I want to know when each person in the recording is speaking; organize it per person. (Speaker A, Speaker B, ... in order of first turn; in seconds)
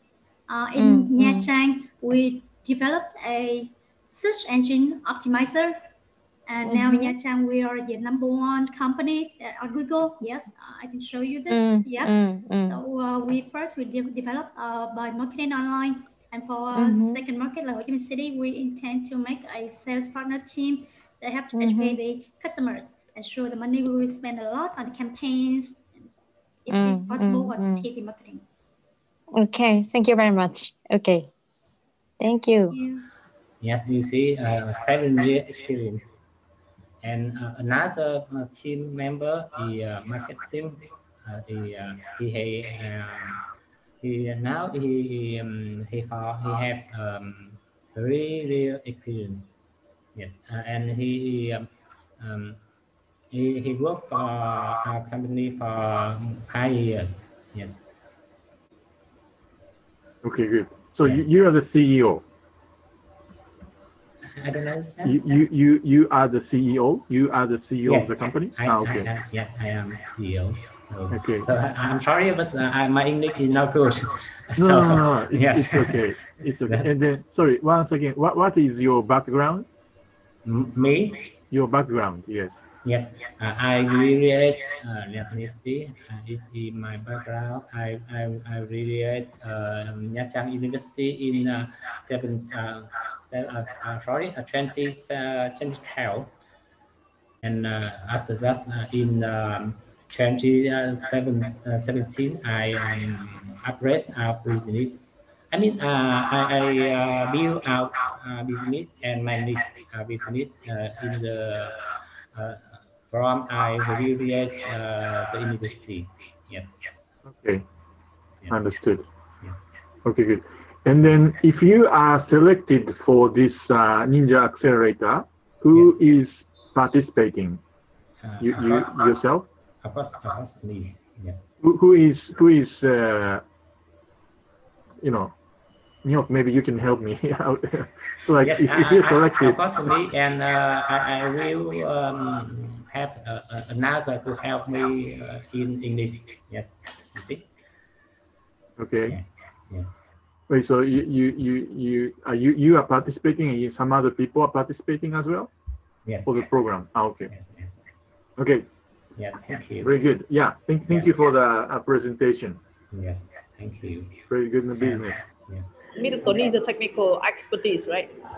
Speaker A: 0.5-5.8, 6.5-25.9, 26.7-28.4, 32.7-33.1
Speaker B: 0.8-1.5, 6.7-7.2, 11.5-12.8, 16.8-17.2, 21.6-22.0, 26.7-27.9, 29.4-31.3, 32.2-32.8
Speaker C: 33.6-36.0, 37.0-43.4, 44.0-49.5, 50.2-51.7, 52.2-52.6, 53.3-57.8, 61.0-61.3, 64.4-65.3, 67.8-76.0, 76.7-76.9, 80.5-81.2, 82.8-96.3, 97.4-111.8, 112.3-116.7, 118.4-118.8, 125.7-126.0, 128.2-129.2, 129.8-131.4, 138.4-147.5, 149.1-149.9, 156.1-156.4, 157.3-157.8, 159.2-160.0, 160.9-161.1, 162.9-164.2, 164.8-165.7, 166.2-166.5
Speaker D: 60.2-62.2, 65.0-69.1, 71.1-71.5, 74.6-79.7, 81.5-82.5, 117.3-117.6, 118.5-119.0, 120.0-127.6, 128.4-129.5, 131.6-133.4, 135.0-135.3, 136.0-139.6, 148.8-149.2, 150.5-155.5, 156.2-157.3, 158.4-158.7, 159.8-162.6, 164.3-165.3
Speaker E: 166.0-168.1